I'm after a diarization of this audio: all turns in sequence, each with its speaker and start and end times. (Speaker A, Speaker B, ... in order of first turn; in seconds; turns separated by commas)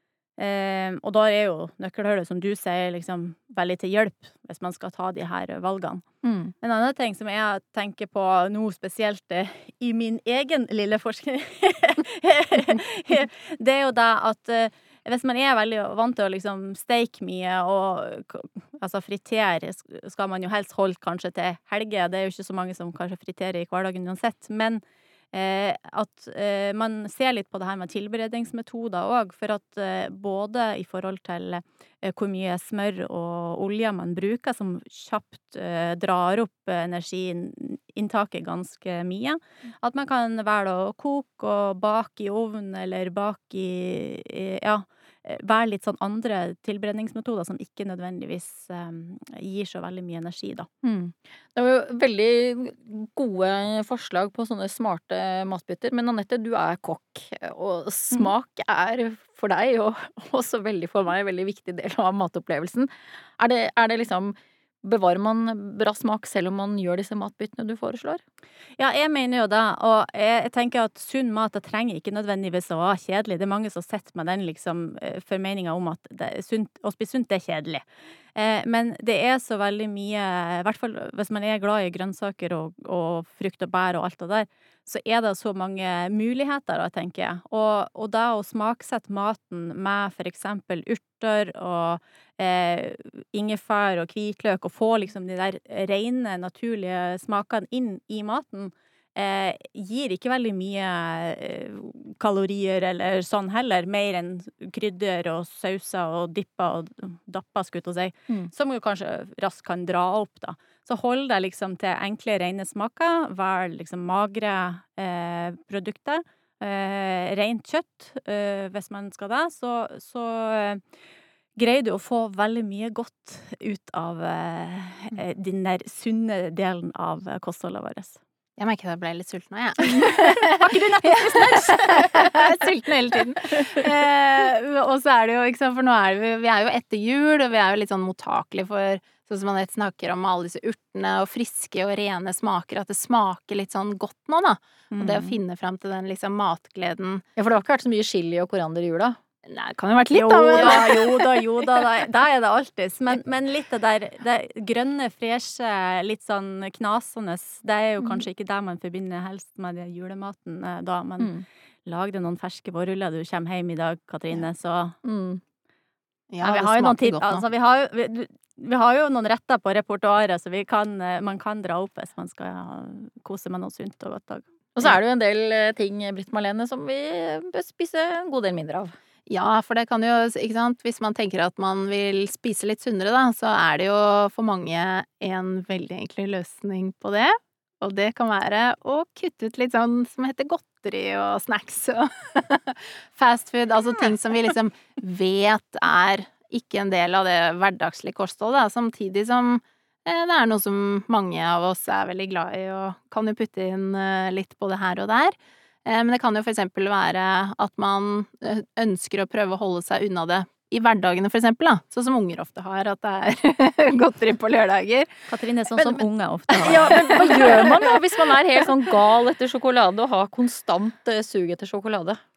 Speaker A: 0.4-6.0, Speaker B: 6.2-6.5, Speaker A: 6.6-50.7, Speaker B: 50.8-68.2, Speaker A: 68.8-77.8, Speaker A: 78.3-120.8, Speaker A: 121.6-128.2, Speaker C: 128.6-147.2, Speaker A: 130.0-132.6, Speaker A: 144.9-145.3, Speaker B: 147.4-149.2, Speaker C: 149.5-151.3, Speaker A: 150.1-161.3, Speaker B: 161.2-161.4, Speaker A: 161.9-165.0, Speaker B: 165.0-165.4, Speaker C: 166.3-167.4, Speaker A: 166.4-174.9, Speaker B: 174.8-178.9, Speaker C: 179.3-215.1, Speaker A: 215.3-217.7, Speaker B: 216.5-222.2